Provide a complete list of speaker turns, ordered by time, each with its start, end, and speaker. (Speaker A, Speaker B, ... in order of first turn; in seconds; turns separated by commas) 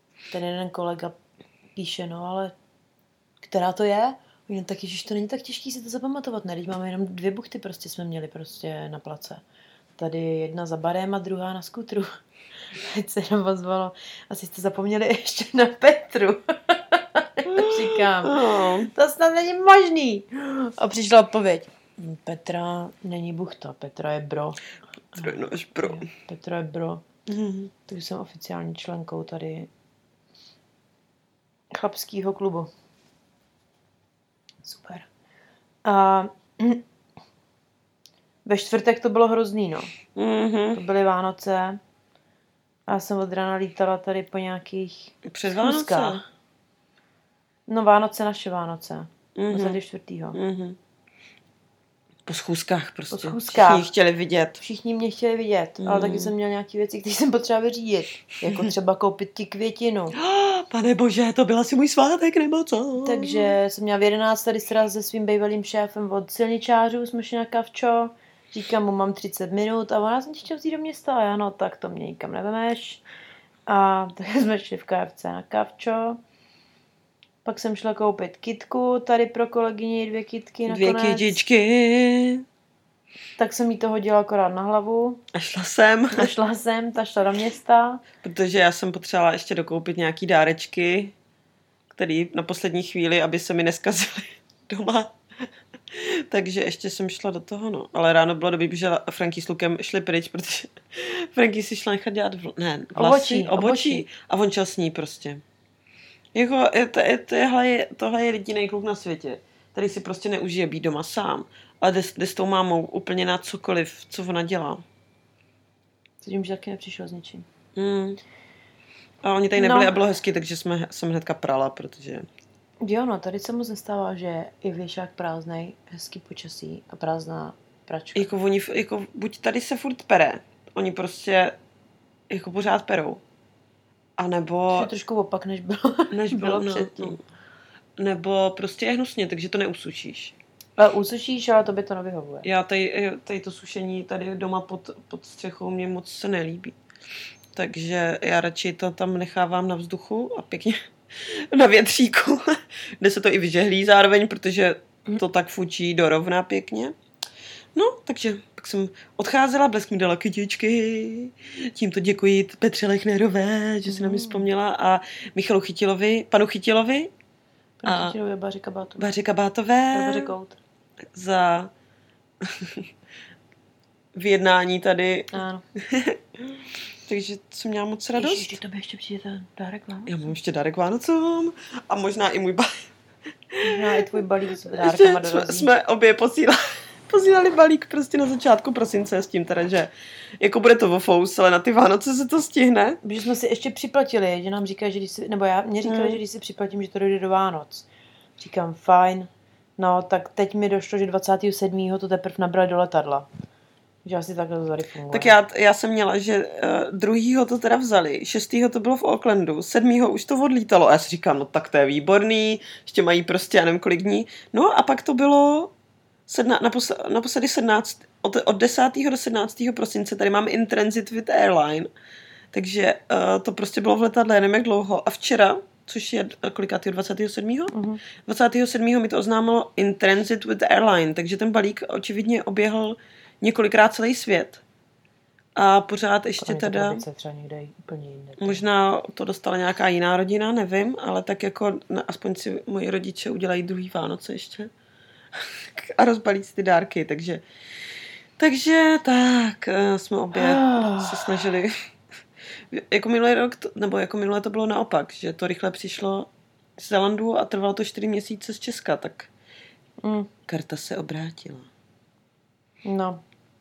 Speaker A: 0.3-1.2, Speaker A: 1.8-2.5, Speaker A: 3.4-9.4, Speaker A: 10.0-12.1, Speaker A: 12.7-24.6, Speaker B: 17.5-18.9, Speaker B: 25.1-26.1, Speaker A: 25.2-27.0, Speaker B: 27.3-27.7, Speaker A: 27.9-29.7, Speaker A: 31.7-32.7, Speaker A: 34.6-35.1, Speaker A: 35.8-36.9, Speaker A: 38.5-39.9, Speaker B: 40.2-40.8, Speaker A: 40.7-41.8, Speaker A: 42.9-46.2, Speaker B: 45.2-46.2, Speaker A: 47.7-50.4, Speaker B: 49.4-49.8, Speaker B: 50.4-50.8, Speaker B: 52.3-54.6, Speaker A: 53.1-53.9, Speaker A: 54.6-60.2, Speaker B: 55.8-56.3, Speaker B: 60.1-63.5, Speaker A: 63.0-73.0, Speaker A: 73.7-76.2, Speaker A: 77.4-81.4, Speaker B: 80.7-82.5, Speaker A: 83.4-85.2, Speaker B: 85.3-86.3, Speaker A: 86.1-88.0, Speaker B: 88.2-91.1, Speaker B: 91.9-95.2, Speaker B: 95.9-105.4, Speaker A: 103.0-104.1, Speaker B: 106.3-114.8, Speaker A: 116.2-117.5, Speaker B: 117.8-118.2, Speaker B: 119.2-122.3, Speaker A: 119.6-119.9, Speaker A: 122.8-128.3, Speaker B: 128.2-131.6, Speaker B: 132.3-133.2, Speaker B: 134.2-134.9, Speaker A: 134.7-137.2, Speaker B: 136.1-137.2, Speaker B: 138.0-140.4, Speaker A: 140.8-142.5, Speaker B: 142.4-146.8, Speaker B: 147.6-156.9, Speaker B: 157.8-167.1, Speaker A: 163.9-164.5, Speaker A: 167.8-169.0, Speaker B: 167.8-168.2, Speaker B: 169.0-170.3, Speaker A: 169.9-170.6, Speaker B: 171.1-171.7, Speaker B: 172.4-172.9, Speaker B: 174.2-176.5, Speaker A: 175.3-175.6, Speaker B: 177.1-178.6, Speaker A: 178.2-180.3, Speaker B: 180.1-182.7, Speaker B: 183.5-193.0, Speaker A: 183.6-185.7, Speaker A: 193.0-197.9, Speaker B: 195.8-196.2, Speaker A: 198.4-203.3, Speaker A: 204.1-205.4, Speaker B: 205.1-215.7, Speaker B: 216.3-221.9, Speaker B: 222.5-227.7, Speaker A: 227.7-228.0, Speaker B: 228.3-234.6, Speaker B: 235.6-237.0, Speaker A: 236.4-238.6, Speaker B: 238.4-244.7, Speaker B: 245.4-247.4, Speaker B: 248.4-251.8, Speaker A: 250.3-251.5, Speaker B: 252.7-259.3, Speaker A: 260.0-260.3, Speaker B: 260.5-261.7, Speaker A: 262.9-263.2